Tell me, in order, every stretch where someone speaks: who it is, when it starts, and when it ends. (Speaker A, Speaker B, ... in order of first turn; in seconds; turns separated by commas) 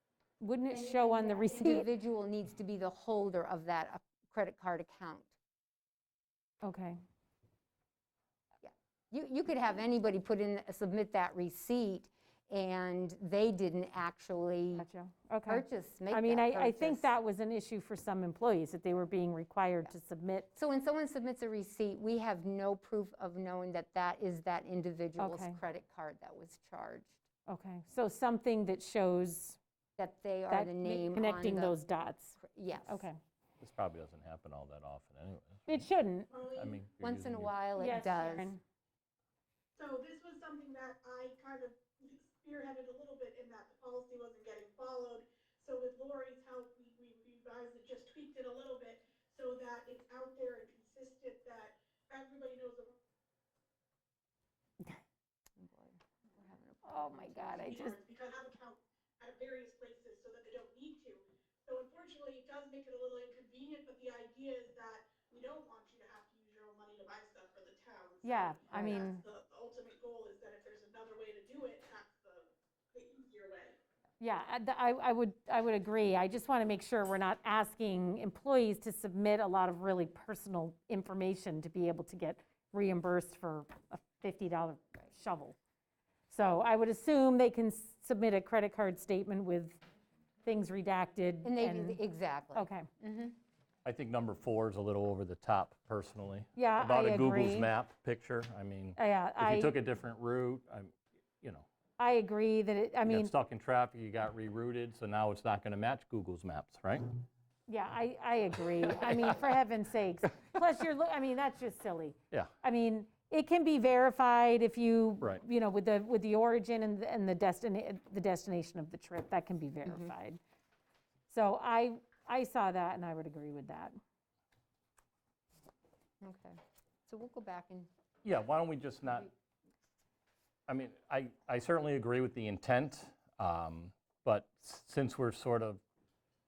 Speaker A: 0.4-1.9, Speaker B: 0.7-5.3, Speaker A: 6.6-7.0, Speaker B: 8.6-14.8, Speaker A: 14.8-20.5, Speaker B: 15.5-17.1, Speaker B: 20.5-27.2, Speaker A: 25.2-25.6, Speaker A: 27.4-29.6, Speaker B: 30.0-31.8, Speaker A: 30.5-33.2, Speaker B: 32.4-33.0, Speaker C: 33.6-35.8, Speaker A: 35.7-36.3, Speaker D: 36.3-36.8, Speaker C: 36.5-37.5, Speaker B: 37.0-38.5, Speaker A: 37.8-38.6, Speaker D: 39.8-52.9, Speaker B: 55.6-57.9, Speaker A: 56.8-58.0, Speaker D: 57.6-73.8, Speaker A: 68.2-69.2, Speaker B: 68.7-69.0, Speaker A: 74.2-85.6, Speaker A: 86.3-89.8, Speaker A: 90.4-92.0, Speaker B: 91.4-93.4, Speaker A: 92.5-92.9, Speaker C: 93.8-101.7, Speaker A: 96.5-97.7, Speaker A: 99.0-99.7, Speaker A: 102.0-103.3, Speaker C: 103.0-107.0, Speaker A: 107.7-120.4, Speaker C: 108.9-109.3, Speaker B: 119.8-120.1, Speaker A: 121.3-124.0, Speaker B: 126.2-127.9, Speaker C: 128.2-129.3, Speaker C: 130.7-135.8